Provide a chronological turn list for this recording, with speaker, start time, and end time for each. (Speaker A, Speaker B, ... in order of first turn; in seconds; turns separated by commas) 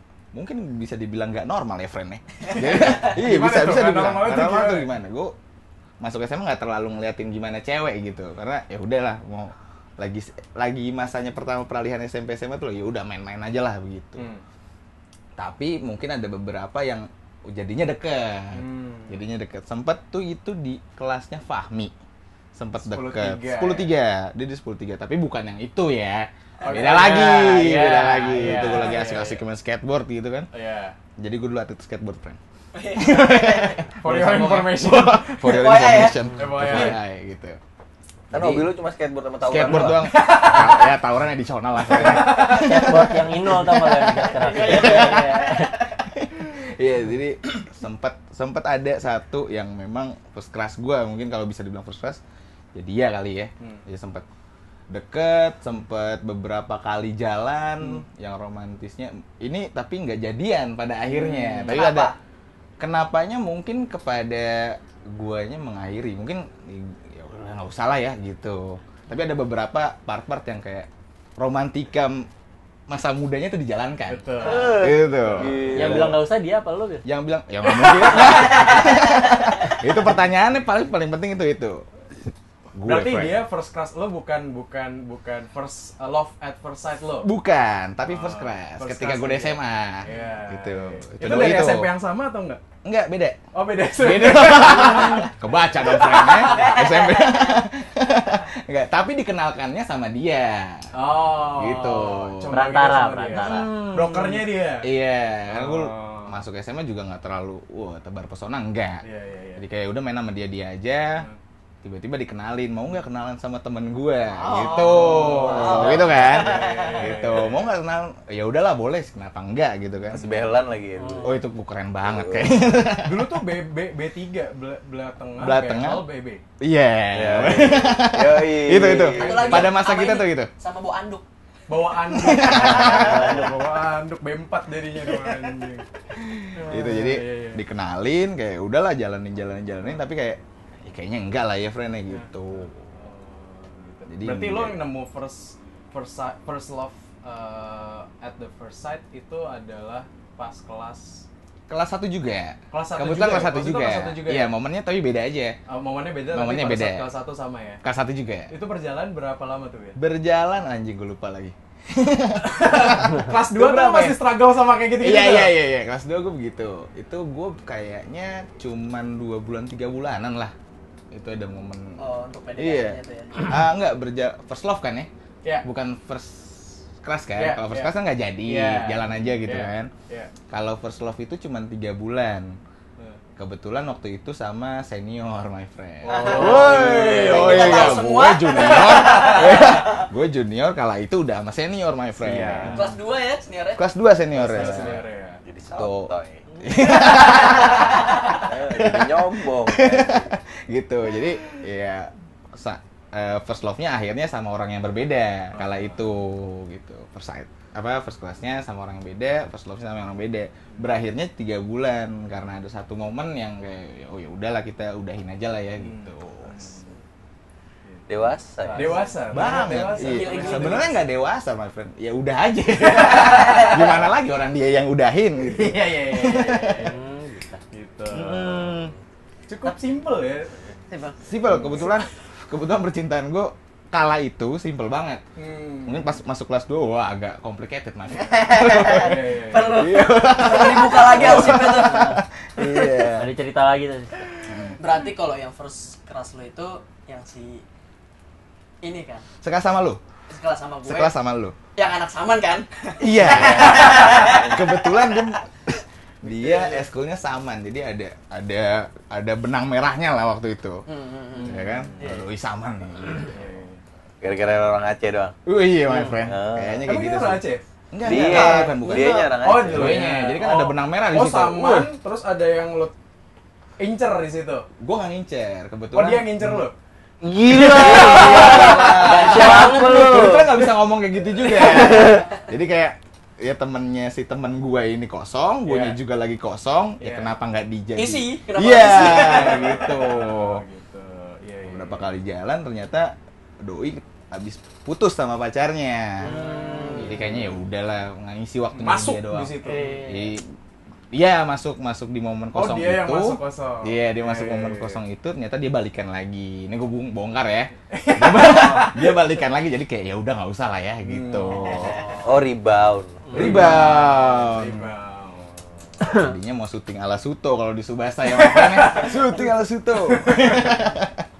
Speaker A: 0.3-5.3, Speaker B: 2.7-4.9, Speaker A: 6.0-14.3, Speaker B: 14.2-14.4, Speaker A: 15.4-21.9, Speaker B: 18.5-19.2, Speaker A: 22.6-30.5, Speaker B: 22.8-23.9, Speaker C: 26.6-27.0, Speaker B: 26.6-29.4, Speaker C: 28.4-29.0, Speaker B: 30.5-31.0, Speaker A: 31.2-32.4, Speaker C: 32.7-33.9, Speaker A: 32.9-37.6, Speaker B: 34.0-35.5, Speaker C: 35.4-36.9, Speaker B: 36.4-37.0, Speaker A: 38.3-38.7, Speaker D: 38.3-40.2, Speaker A: 39.4-45.3, Speaker B: 39.6-41.0, Speaker B: 41.8-42.8, Speaker E: 42.3-45.8, Speaker C: 44.4-45.7, Speaker A: 46.1-52.2, Speaker A: 52.7-54.2, Speaker A: 54.9-62.1, Speaker B: 57.8-58.0, Speaker B: 61.1-61.9, Speaker C: 61.7-62.2, Speaker A: 62.8-72.3, Speaker A: 72.9-76.2, Speaker B: 74.0-75.7, Speaker D: 74.4-76.2, Speaker E: 75.7-77.0, Speaker A: 77.0-81.8, Speaker C: 78.6-79.5, Speaker A: 82.8-83.4, Speaker B: 82.8-87.3, Speaker A: 87.2-91.9, Speaker B: 88.0-92.6, Speaker C: 90.1-90.3, Speaker A: 92.8-93.4, Speaker B: 93.5-96.7, Speaker A: 94.0-100.9, Speaker C: 96.4-97.7, Speaker B: 100.9-104.9, Speaker A: 101.5-102.6, Speaker E: 102.5-103.8, Speaker A: 103.3-109.0, Speaker B: 105.5-106.4, Speaker B: 109.0-109.7, Speaker A: 109.6-111.3, Speaker A: 111.8-120.3, Speaker C: 114.3-117.2, Speaker B: 114.7-117.7, Speaker B: 120.1-120.5, Speaker D: 120.1-121.3, Speaker A: 121.2-123.4, Speaker D: 122.0-122.8, Speaker B: 122.9-126.4, Speaker A: 125.4-126.1, Speaker A: 126.6-130.5, Speaker D: 127.1-129.7, Speaker B: 128.8-129.7, Speaker C: 129.1-131.2, Speaker B: 131.7-135.9, Speaker A: 132.1-133.4, Speaker B: 136.5-137.6, Speaker A: 136.5-142.8, Speaker B: 142.1-151.2, Speaker A: 144.1-144.8, Speaker A: 151.7-155.6, Speaker B: 152.7-154.5, Speaker B: 155.7-157.8, Speaker A: 156.3-157.1, Speaker A: 157.8-158.5, Speaker B: 158.5-160.0, Speaker A: 160.0-164.2, Speaker B: 162.4-165.6, Speaker A: 165.0-170.5, Speaker A: 171.1-172.0, Speaker C: 172.0-173.3, Speaker A: 172.6-175.1, Speaker A: 175.6-179.9, Speaker B: 177.3-180.3, Speaker A: 180.5-182.6, Speaker A: 183.4-192.8, Speaker B: 186.0-188.1, Speaker C: 186.1-190.1, Speaker B: 188.9-189.6, Speaker B: 192.2-192.9, Speaker C: 192.7-193.9, Speaker A: 193.8-195.0, Speaker B: 194.3-195.4, Speaker D: 195.4-196.4, Speaker A: 195.8-216.7, Speaker C: 196.6-198.1, Speaker D: 198.2-200.3, Speaker B: 205.5-206.1, Speaker B: 215.8-217.0, Speaker B: 217.8-221.0, Speaker D: 218.1-219.2, Speaker A: 218.8-226.9, Speaker C: 219.5-221.1, Speaker B: 222.8-224.0, Speaker B: 225.4-227.0, Speaker E: 226.7-227.6, Speaker B: 227.7-228.8, Speaker A: 228.1-228.9, Speaker B: 229.5-230.6, Speaker C: 230.9-231.2, Speaker A: 231.2-235.2, Speaker B: 231.5-231.8, Speaker B: 235.4-236.1, Speaker A: 235.8-243.3, Speaker C: 238.2-242.2, Speaker B: 238.6-239.9, Speaker E: 243.1-244.3, Speaker A: 244.5-244.8, Speaker C: 244.8-247.6, Speaker C: 248.8-249.2, Speaker A: 249.4-250.0, Speaker C: 250.3-251.1, Speaker A: 250.8-251.6, Speaker C: 251.8-255.0, Speaker A: 253.0-260.9, Speaker B: 253.4-254.2, Speaker B: 256.3-256.9, Speaker C: 260.9-262.2, Speaker B: 261.4-262.2, Speaker A: 261.4-263.4, Speaker B: 263.2-263.8, Speaker D: 264.2-265.4, Speaker A: 265.5-271.9, Speaker D: 266.2-266.9, Speaker B: 266.8-267.6, Speaker D: 268.0-270.1, Speaker C: 268.1-269.4, Speaker B: 269.4-272.9, Speaker B: 273.8-274.7, Speaker A: 274.8-276.5, Speaker B: 275.9-276.8, Speaker D: 277.2-280.7, Speaker A: 277.6-290.6, Speaker C: 277.8-279.7, Speaker D: 281.5-282.3, Speaker B: 285.6-286.0, Speaker B: 287.0-287.4, Speaker C: 287.9-289.8, Speaker B: 288.9-292.1, Speaker A: 291.6-296.4, Speaker C: 296.2-297.1, Speaker B: 296.3-297.0, Speaker A: 296.9-300.5, Speaker B: 298.7-300.0, Speaker C: 299.6-300.3, Speaker A: 301.1-312.1, Speaker B: 302.5-305.0, Speaker B: 307.9-309.2, Speaker B: 311.0-312.2, Speaker D: 312.2-313.5, Speaker B: 313.3-316.1, Speaker A: 313.3-314.9, Speaker A: 316.1-321.2, Speaker B: 318.2-319.4, Speaker B: 320.0-320.8